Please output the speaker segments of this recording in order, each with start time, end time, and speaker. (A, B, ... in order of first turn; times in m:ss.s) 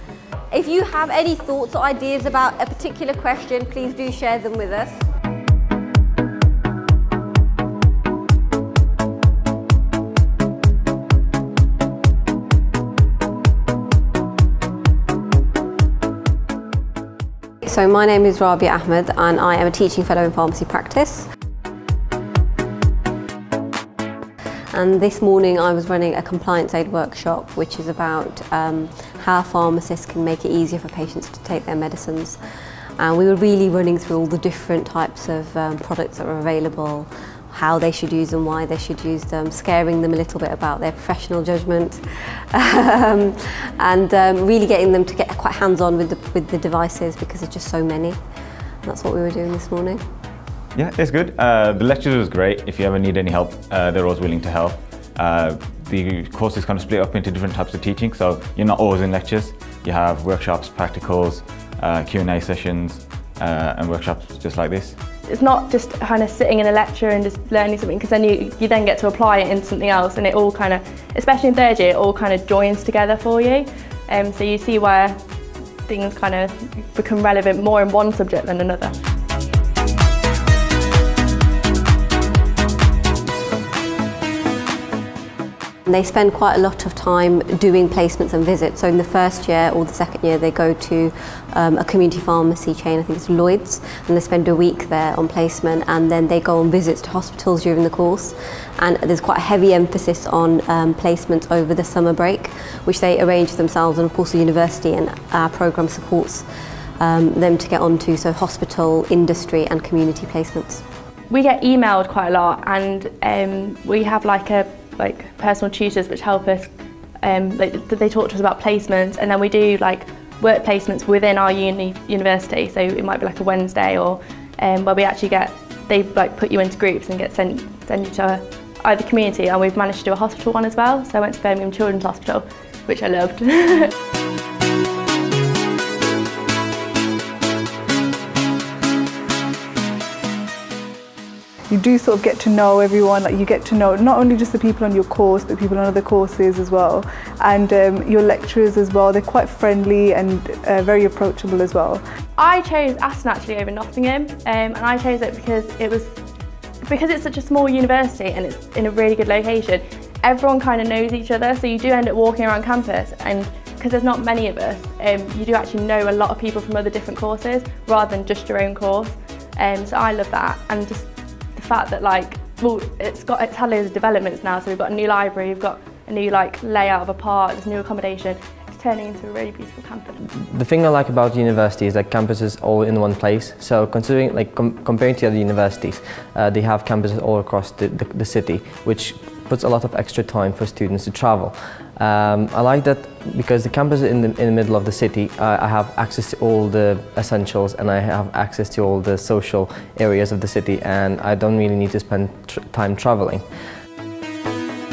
0:00.5-0:05.0 A
0:17.6-0:21.3 A
0:24.7-0:32.4 A
0:33.0-0:48.2 A
0:48.8-0:50.0 A
0:50.8-1:05.0 B
1:05.3-1:15.2 C
1:15.9-1:18.9 C
1:25.9-1:46.4 A
1:47.0-1:50.8 A
1:51.3-2:13.9 C
2:21.7-2:32.0 D
2:32.4-2:36.2 C
2:36.9-3:00.2 C
3:00.4-3:23.4 E